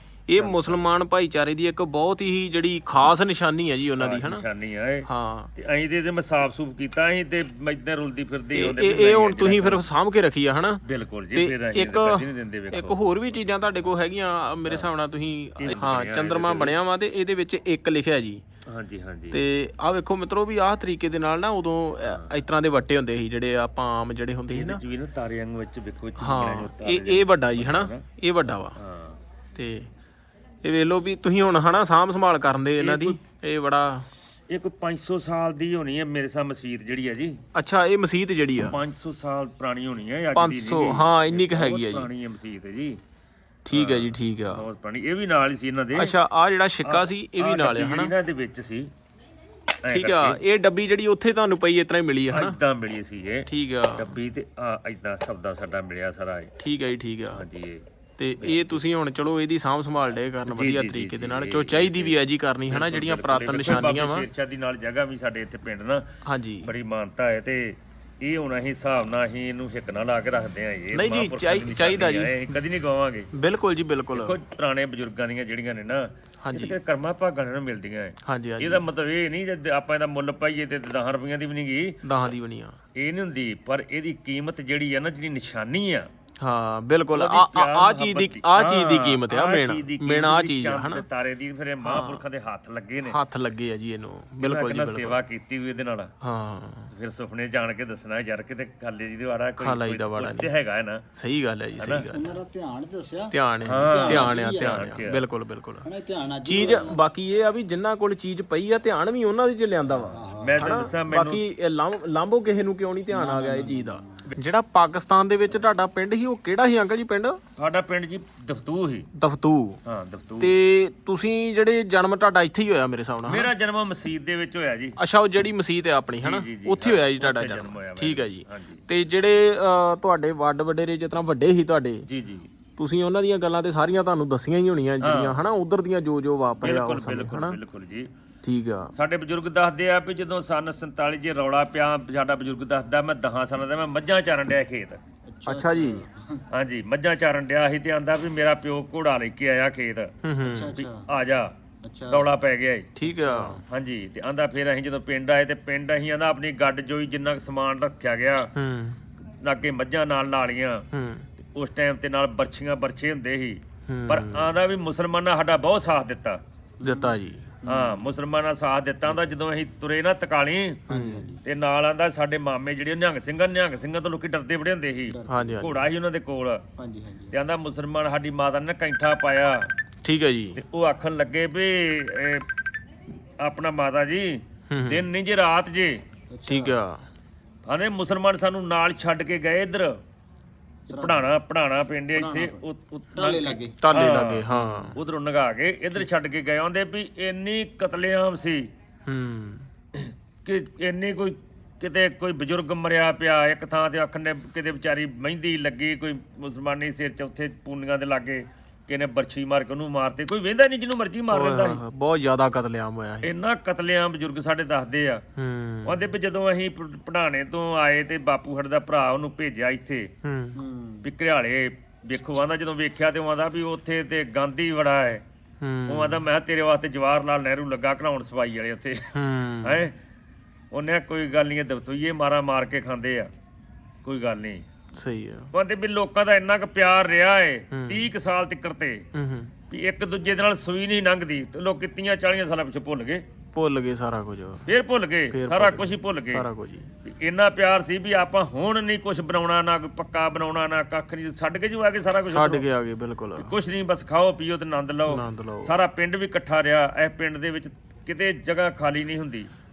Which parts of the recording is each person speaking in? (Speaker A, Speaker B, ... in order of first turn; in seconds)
Speaker A: 0.3-4.4, 5.0-5.5, 8.5-18.4, 19.3-24.8, 26.2-28.8, 29.6-29.9, 30.6-34.1, 37.5-38.8, 40.3-42.1, 43.6-44.6, 46.0-48.1, 49.9-52.6, 53.5-54.2, 56.6-57.4, 58.2-64.3, 66.2-66.7, 70.9-72.5, 73.3-74.4, 76.4-76.8, 78.2-78.8, 82.0-82.8, 86.4-91.0, 91.8-92.2, 93.1-95.2, 96.2-96.9, 99.6-100.5, 101.1-102.3, 103.3-105.9, 106.4-117.4, 119.1-119.8, 120.4-123.5, 125.0-132.1, 132.8-137.6, 138.4-138.9, 145.4-146.0, 150.2-150.8, 152.9-153.6, 158.5-159.0, 160.9-161.3, 163.9-164.5, 166.8-167.5, 170.9-171.3, 175.3-175.8, 180.0-180.6, 184.7-185.1, 186.5-187.0, 193.8-195.0, 199.1-199.7, 211.3-213.3, 215.3-216.0, 220.2-220.6, 225.6-226.2, 229.1-229.8, 234.9-235.5, 237.7-238.1, 239.1-239.5, 243.5-244.7, 245.3-246.9, 252.2-253.5, 255.1-255.7
Speaker B: 0.3-0.8, 4.0-9.8, 10.8-13.0, 15.6-16.8, 18.7-19.4, 22.0-22.3, 24.5-28.0, 28.7-29.2, 32.8-33.2, 34.5-37.4, 38.6-43.0, 43.7-46.1, 46.8-48.9, 49.8-50.4, 52.3-56.5, 57.3-57.8, 58.4-58.8, 60.5-66.0, 66.6-73.3, 74.1-81.9, 83.0-86.1, 87.1-93.2, 94.4-96.1, 96.9-101.0, 101.8-102.1, 103.6-105.2, 110.4-111.4, 117.6-119.1, 119.8-120.5, 123.2-125.0, 126.2-128.8, 132.1-132.5, 135.0-135.4, 136.6-138.1, 138.9-145.0, 146.5-150.1, 150.8-151.5, 152.1-152.9, 153.7-158.5, 159.3-160.8, 161.5-166.4, 167.6-170.8, 171.4-176.6, 177.3-179.7, 180.6-182.4, 183.4-186.0, 187.6-189.9, 190.9-198.7, 199.9-211.8, 213.2-215.2, 215.8-220.1, 221.0-225.2, 225.9-229.1, 229.6-229.9, 230.7-233.3, 234.0-234.6, 235.5-239.1, 239.7-243.2, 244.7-246.4, 247.0-252.6, 253.4-259.5
Speaker C: 102.1-104.8, 105.8-107.0, 110.0-110.9, 113.1-114.2, 145.3-146.4, 150.4-151.1, 151.8-152.3, 153.1-153.6, 166.8-168.0, 170.9-171.4, 175.1-175.6, 176.8-177.3, 186.3-186.8, 190.9-191.3, 192.1-193.8, 220.5-221.1